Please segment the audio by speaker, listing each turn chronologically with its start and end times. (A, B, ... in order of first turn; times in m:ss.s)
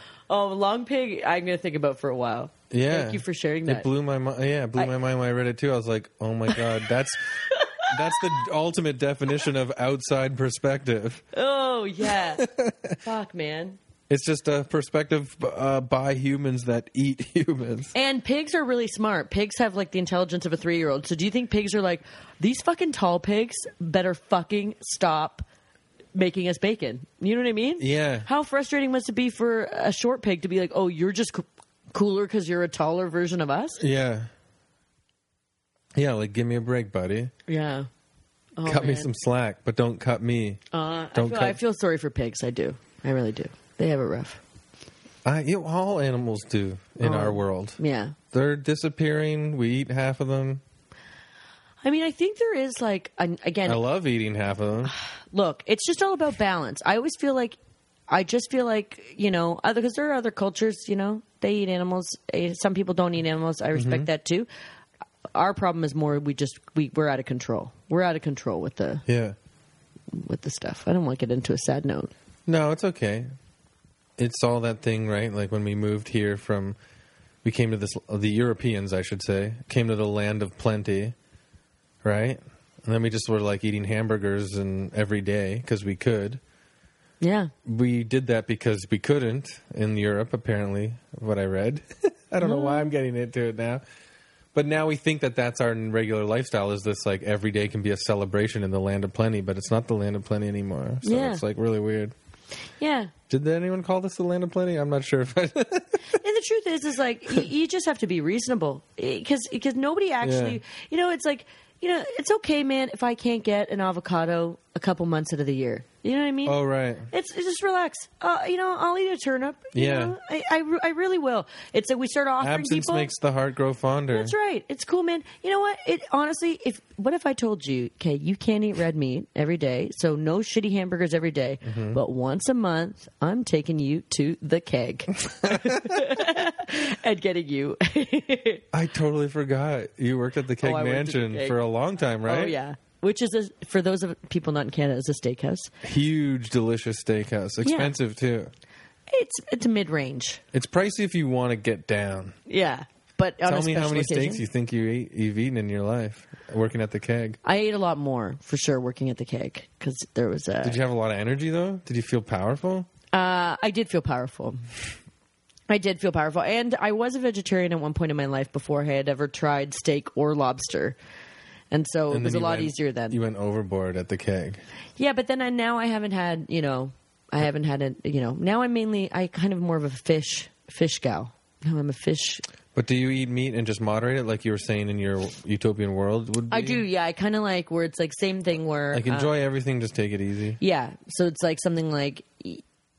0:00.3-0:03.9 A
0:02.7-0:11.2 B
0:06.5-0:06.9 A
0:07.5-0:08.4 A
0:11.3-0:12.5 A
0:12.1-0:13.0 B
0:13.0-0:13.8 A
0:14.1-0:17.9 B
0:17.9-0:25.4 A
0:26.1-0:33.8 A
0:27.8-0:28.3 B
0:33.8-0:34.3 B
0:35.9-0:37.3 B
0:37.5-0:37.9 A
0:38.6-0:39.1 A
0:38.6-0:40.6 B
0:40.7-0:44.4 A
0:41.1-0:41.6 B
0:45.2-0:47.8 B
0:47.0-0:48.2 A
0:48.3-0:50.6 B
0:51.8-0:53.8 A
0:53.7-0:54.9 B
0:54.9-0:57.6 A
0:58.1-1:04.5 A
1:03.7-1:04.1 B
1:05.3-1:09.0 A
1:09.0-1:09.4 B
1:10.1-1:12.1 A
1:12.5-1:13.3 B
1:14.2-1:16.8 B
1:17.4-1:21.1 B
1:22.0-1:26.4 B
1:27.2-1:27.5 A
1:27.6-1:33.8 B
1:32.4-1:32.9 A
1:34.5-1:42.1 B
1:41.0-1:41.4 A
1:42.8-1:43.1 A
1:43.3-1:46.2 B
1:46.1-1:56.6 A
1:50.2-1:50.6 B
1:56.4-1:57.1 B
1:57.1-2:03.1 A
1:59.7-2:00.2 B
2:02.4-2:04.3 B
2:04.1-2:18.6 A
2:11.6-2:12.0 B
2:15.4-2:16.2 B
2:18.7-2:22.5 B
2:20.6-2:21.6 A
2:22.2-2:25.7 A
2:25.8-2:28.5 B
2:27.6-2:27.9 A
2:29.1-2:30.4 A
2:30.5-2:32.4 B
2:32.5-2:34.4 A
2:33.4-2:37.4 B
2:37.4-2:40.8 A
2:40.6-2:42.9 B
2:43.1-2:44.6 A
2:45.7-2:51.0 A
2:51.7-2:53.2 A
2:52.1-2:54.6 B
2:55.0-3:02.4 A
3:02.7-3:06.8 B
3:06.5-3:09.3 A
3:08.9-3:10.6 B
3:10.6-3:12.6 A